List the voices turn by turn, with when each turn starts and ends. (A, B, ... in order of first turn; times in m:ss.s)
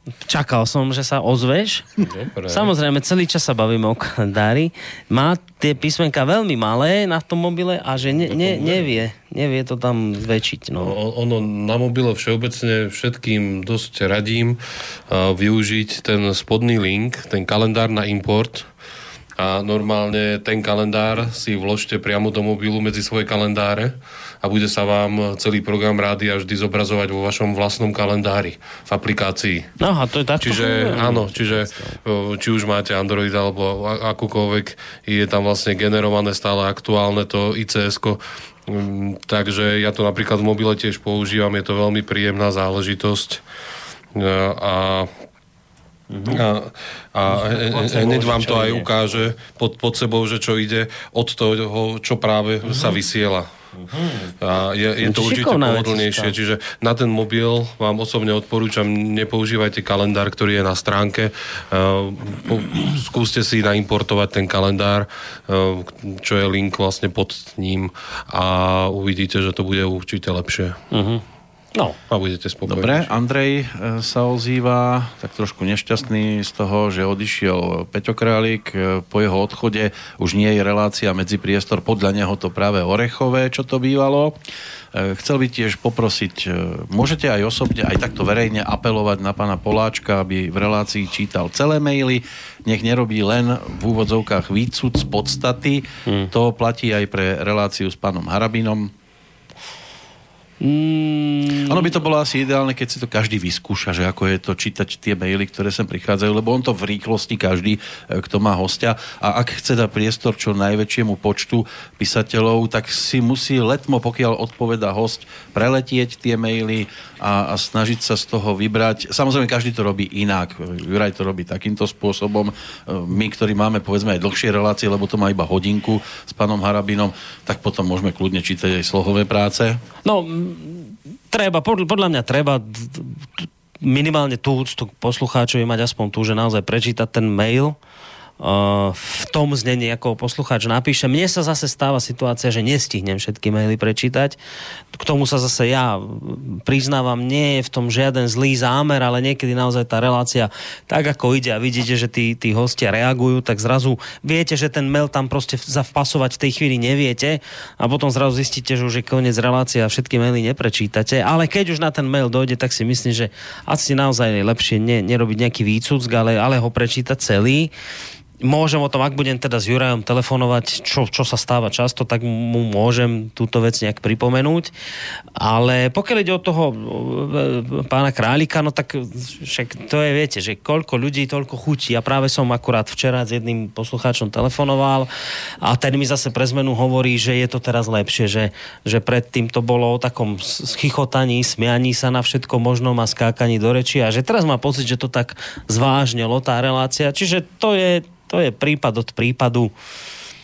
0:00.2-0:10.9 A
0:02.0-0:02.7 B
0:08.3-0:08.9 B
0:10.8-0:18.7 B
0:19.4-0:29.7 B
0:29.8-0:32.0 A
0:30.4-0:43.4 B
0:44.1-0:45.1 B
0:46.1-0:46.4 A
0:46.3-0:53.5 B
0:47.3-0:48.9 A
0:52.7-0:53.0 A
0:53.9-0:54.3 A
0:54.4-1:10.8 B
0:55.0-0:56.3 A
1:10.9-1:11.2 A
1:12.1-1:13.1 B
1:12.6-1:24.4 C
1:24.9-1:38.9 C
1:40.6-1:41.9 A
1:41.6-2:09.8 C
2:10.0-2:17.8 A
2:18.4-2:24.4 A
2:24.9-2:47.7 A
2:48.4-2:54.7 A
2:55.4-3:05.1 A
3:05.6-3:19.7 A